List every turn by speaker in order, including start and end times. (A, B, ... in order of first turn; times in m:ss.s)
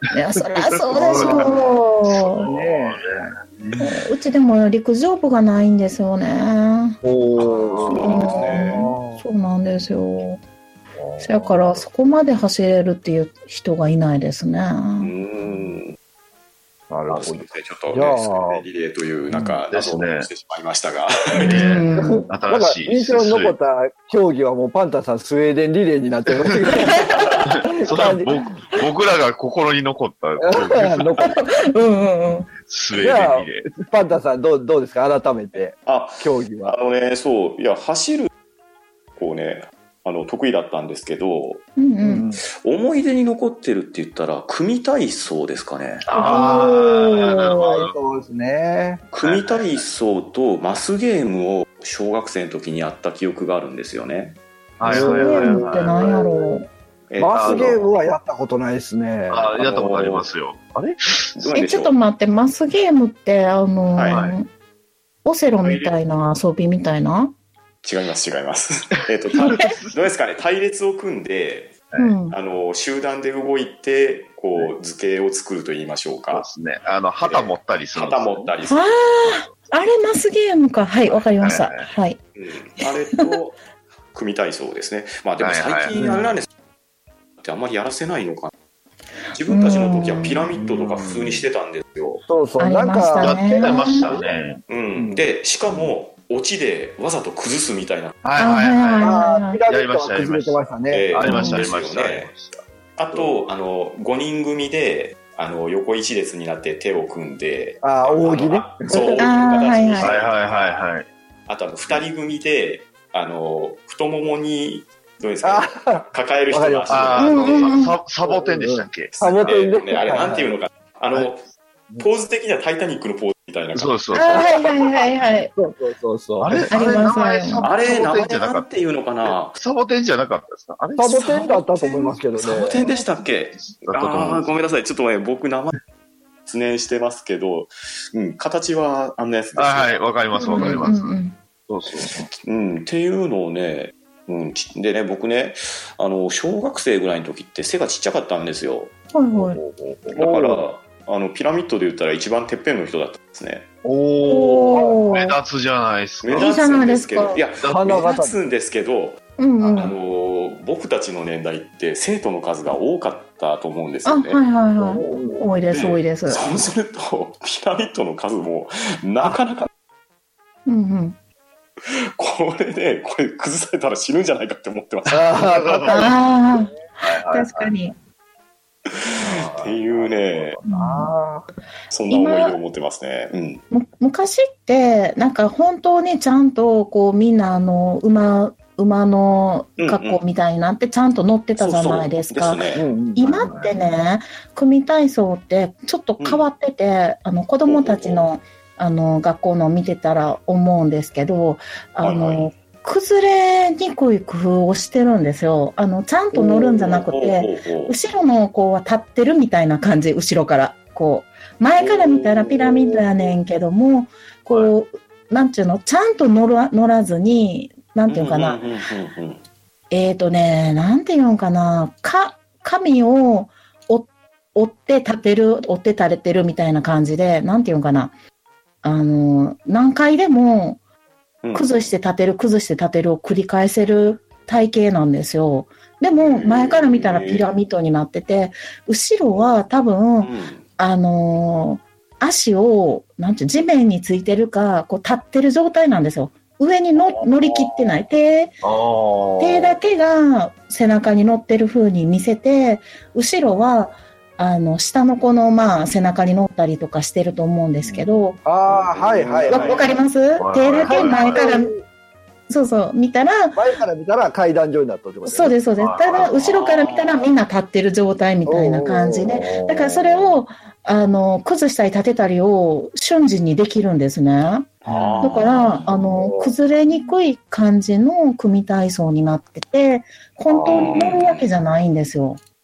0:00.1-0:02.5 A
0:00.5-0:04.0 B
0:01.0-0:01.5 C
0:02.4-0:03.3 C
0:03.8-0:07.0 A
0:07.0-0:08.3 B
0:07.4-0:09.2 C
0:07.4-0:08.8 D
0:07.9-0:10.4 A
0:11.0-0:11.5 B
0:11.2-0:15.1 A
0:15.0-0:16.0 D
0:16.9-0:18.6 C
0:17.1-0:21.6 D
0:19.7-0:20.3 B
0:21.4-0:22.2 A
0:21.4-0:23.5 B
0:22.0-0:28.3 C
0:26.8-0:27.4 A
0:27.5-0:31.2 B
0:30.4-0:31.4 C
0:31.2-0:32.5 A
0:32.6-0:33.7 B
0:32.9-0:36.7 C
0:35.8-0:38.3 D
0:39.2-0:41.6 D
0:41.8-0:42.2 A
0:42.0-0:42.4 C
0:42.6-0:46.0 D
0:46.1-0:47.9 B
0:46.1-0:49.0 C
0:46.1-0:46.7 A
0:49.1-0:54.4 D
0:49.2-0:49.8 B
0:54.8-0:56.2 B
0:54.8-0:56.5 C
0:54.9-0:56.7 A
0:57.1-0:57.8 D
0:57.2-0:59.5 C
0:57.3-0:57.8 B
0:59.3-1:01.4 B
0:59.6-1:00.2 D
1:01.4-1:01.9 D
1:01.5-1:04.5 A
1:03.9-1:04.2 D
1:04.1-1:04.4 B
1:05.2-1:07.3 A
1:05.6-1:05.9 D
1:07.8-1:11.8 D
1:09.3-1:10.0 B
1:09.4-1:09.7 A
1:12.0-1:12.4 A
1:12.3-1:16.5 D
1:16.3-1:18.5 B
1:17.2-1:18.9 D
1:18.7-1:22.2 A
1:19.2-1:19.5 B
1:21.4-1:21.9 B
1:22.4-1:23.6 D
1:22.8-1:23.2 A
1:24.1-1:26.5 D
1:25.4-1:26.0 B
1:25.9-1:26.3 C
1:27.4-1:28.5 D
1:29.3-1:32.2 D
1:29.5-1:30.5 A
1:30.6-1:31.5 B
1:32.2-1:34.3 C
1:32.6-1:34.1 A
1:33.2-1:34.6 B
1:34.7-1:38.2 D
1:34.9-1:35.9 C
1:38.2-1:40.6 B
1:38.4-1:39.6 A
1:39.0-1:41.2 C
1:40.9-1:42.3 D
1:41.1-1:42.6 B
1:41.2-1:41.7 A
1:43.0-1:50.8 D
1:47.8-1:49.3 C
1:49.2-1:50.2 A
1:50.0-1:51.0 B
1:51.5-1:57.7 D
1:55.4-1:57.2 C
1:56.9-1:59.7 B
1:57.2-1:57.9 A
1:58.2-2:00.6 C
1:59.4-2:01.4 D
2:02.0-2:04.4 D
2:03.7-2:04.4 B
2:04.1-2:05.5 A
2:05.5-2:06.7 C
2:06.4-2:08.7 B
2:06.7-2:07.7 A
2:07.6-2:09.6 D
2:09.2-2:11.3 B
2:11.0-2:12.8 C
2:11.0-2:15.8 D
2:13.7-2:14.5 B
2:16.5-2:20.0 D
2:19.6-2:22.2 B
2:20.4-2:21.4 A
2:20.5-2:20.8 D
2:22.3-2:28.9 D
2:29.1-2:29.6 A
2:29.4-2:30.2 B
2:30.1-2:33.7 D
2:30.1-2:30.7 C
2:33.8-2:36.9 B
2:34.3-2:35.4 A
2:34.7-2:35.0 C
2:36.2-2:39.2 D
2:36.3-2:37.4 A
2:37.6-2:38.0 B
2:37.6-2:38.4 C
2:39.4-2:39.9 A
2:39.7-2:44.4 D
2:44.0-2:46.4 A
2:44.9-2:45.4 C
2:45.7-2:49.7 D
2:50.6-2:51.2 A
2:51.8-2:55.5 D
2:55.1-2:56.6 C
2:55.4-2:56.1 B
2:55.9-2:57.9 A
2:57.0-2:57.7 B
2:58.9-3:00.6 D
2:59.2-2:59.7 C
2:59.2-3:00.6 B
3:00.6-3:01.5 C
3:00.7-3:01.1 A
3:01.9-3:03.6 D
3:02.1-3:02.6 A
3:03.7-3:12.6 A
3:09.8-3:10.2 D
3:11.6-3:12.8 D
3:12.7-3:13.6 C
3:13.2-3:38.6 A
3:13.2-3:13.7 B
3:16.2-3:16.4 D
3:17.6-3:18.3 D
3:22.0-3:22.5 D
3:26.3-3:27.0 C
3:26.9-3:27.9 D
3:31.8-3:33.0 D
3:38.1-3:39.4 D
3:39.9-3:48.1 A
3:48.8-3:50.8 A
3:51.4-3:51.7 D
3:51.5-4:08.5 A
3:56.2-3:57.4 D
4:00.2-4:00.6 D
4:07.2-4:07.9 D
4:08.6-4:09.8 B
4:09.4-4:18.4 A
4:17.8-4:19.9 C
4:18.6-4:19.8 B
4:19.5-4:21.7 A
4:20.4-4:21.5 B
4:20.8-4:21.8 C
4:22.5-4:23.6 A
4:23.5-4:25.6 C
4:25.2-4:42.4 A
4:25.8-4:26.3 B
4:26.1-4:27.2 D
4:28.5-4:29.5 C
4:29.3-4:30.4 B
4:34.8-4:35.8 D
4:34.8-4:36.5 C
4:40.5-4:41.0 B
4:40.7-4:41.5 D